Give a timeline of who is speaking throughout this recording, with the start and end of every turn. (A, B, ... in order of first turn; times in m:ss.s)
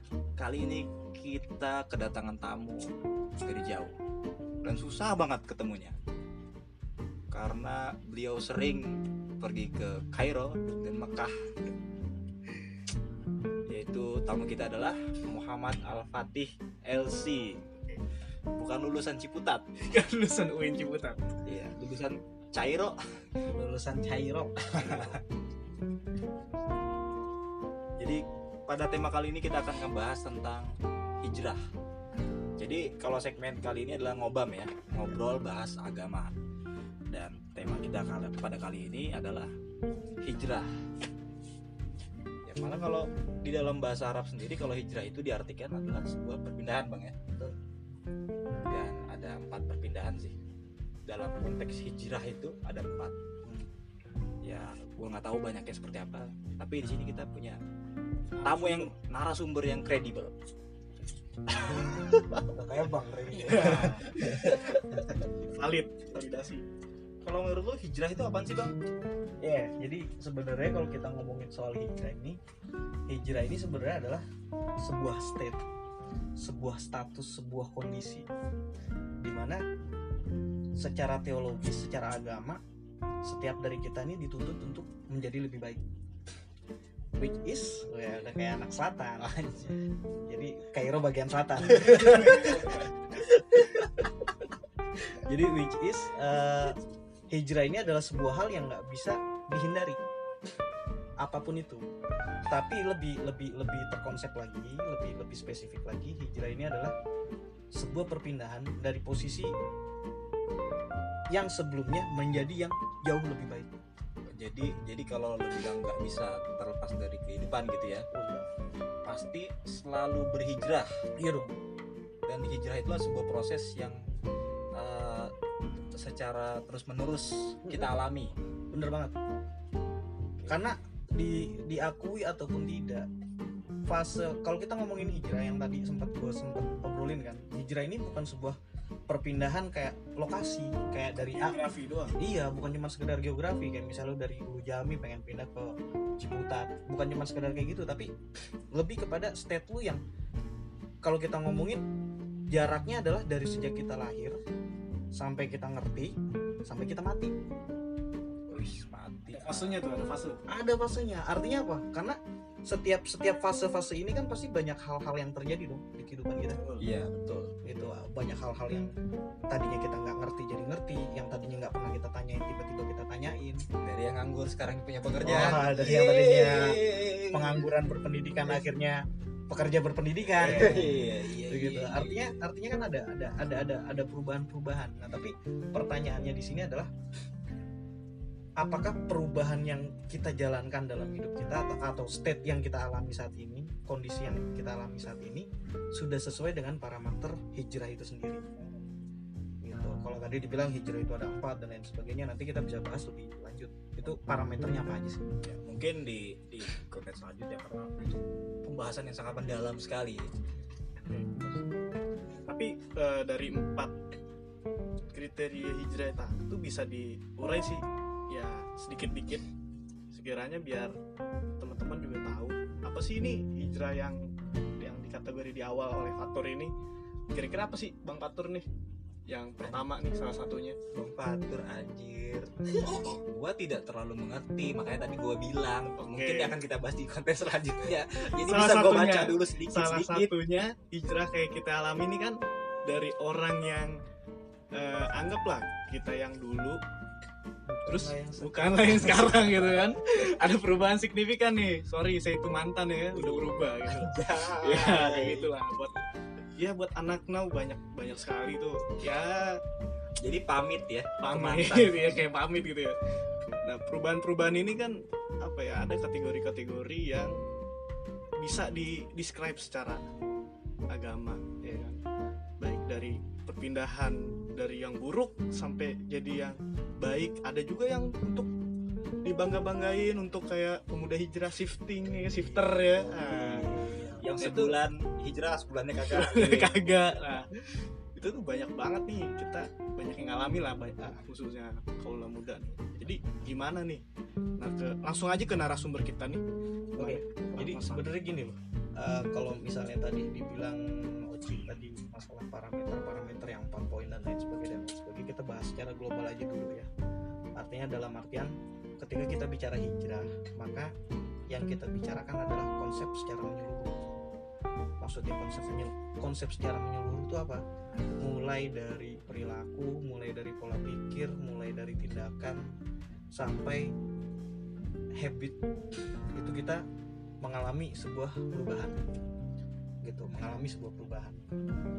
0:00.4-0:02.8 A
0:03.4-0:03.9 A
0:04.6-0:06.0 A
0:07.3-0:11.3 A
0:13.7-0:17.6 A
0:18.6-0:19.6 A
0:19.9-0:21.4 B
0:21.4-0:23.0 A
0:23.5-0:25.2 C
0:24.7-0:25.2 A
0:28.0-0:30.7 A
0:31.2-0:31.6 A
0:32.6-0:36.3 A
0:37.1-0:39.5 A
0:40.2-0:40.7 A
0:42.4-0:47.4 A
0:48.6-0:50.4 A
0:51.0-0:53.7 A
0:54.4-0:57.6 A
0:58.4-1:00.3 A
1:01.7-1:02.4 B
1:02.5-1:04.4 C
1:03.3-1:05.0 B
1:05.5-1:06.6 B
1:07.2-1:08.7 A
1:09.4-1:12.4 C
1:13.1-1:14.2 C
1:14.8-1:15.6 C
1:16.4-1:18.3 C
1:19.2-1:19.6 C
1:20.8-1:22.6 C
1:23.2-1:25.8 C
1:27.2-1:29.4 C
1:29.2-1:29.8 A
1:30.2-1:34.1 C
1:31.8-1:32.9 B
1:35.2-1:36.8 C
1:37.3-1:40.0 C
1:41.2-1:41.8 C
1:42.5-1:46.9 C
1:47.7-1:49.5 C
1:51.3-1:53.7 C
1:54.3-1:58.0 A
1:58.1-1:58.5 C
1:59.0-2:00.9 A
2:01.2-2:01.5 C
2:02.3-2:04.0 A
2:04.7-2:05.3 A
2:05.9-2:08.3 A
2:07.6-2:07.9 C
2:08.7-2:09.1 C
2:10.5-2:13.1 C
2:13.9-2:21.6 C
2:21.2-2:22.1 B
2:22.2-2:28.1 C
2:28.7-2:30.0 C
2:31.0-2:31.8 C
2:32.5-2:34.4 C
2:35.1-2:36.1 C
2:36.6-2:37.3 C
2:38.5-2:39.8 A
2:39.3-2:40.4 B
2:40.5-2:46.6 C
2:46.6-2:46.8 B
2:46.8-2:47.5 A
2:47.6-2:48.9 C
2:49.5-2:53.6 C
2:53.8-2:57.7 A
2:55.2-2:56.8 C
2:57.3-3:06.9 C
3:00.4-3:02.3 A
3:08.6-3:18.4 C
3:19.6-3:25.2 C
3:25.4-3:30.3 A
3:31.0-3:31.3 B
3:32.5-3:33.9 B
3:35.1-3:39.4 B
3:40.1-3:40.9 B
3:41.6-3:44.3 B
3:44.8-3:46.7 B
3:47.3-3:48.6 B
3:49.3-3:50.8 B
3:50.9-4:00.3 A
3:56.0-3:56.6 B
3:58.3-4:04.0 B
4:04.7-4:06.8 B
4:07.6-4:09.8 C
4:07.9-4:15.9 B
4:13.1-4:15.5 A
4:16.6-4:19.6 B
4:20.2-4:22.2 A
4:21.2-4:23.0 B
4:23.6-4:27.4 B
4:28.4-4:30.0 B
4:30.9-4:32.0 B
4:32.6-4:38.5 B
4:39.2-4:43.7 B
4:42.2-4:44.3 C
4:44.2-4:46.9 A
4:44.4-4:44.8 B
4:46.1-4:47.5 B
4:48.2-4:54.0 B
4:54.6-4:56.4 B
4:56.9-4:58.1 B
4:57.0-5:06.9 C
5:07.6-5:10.9 C
5:11.5-5:13.9 C
5:15.0-5:17.6 C
5:18.2-5:22.6 C
5:23.3-5:23.9 C
5:25.2-5:25.6 C
5:26.3-5:26.8 C
5:27.4-5:29.0 C
5:30.0-5:31.4 C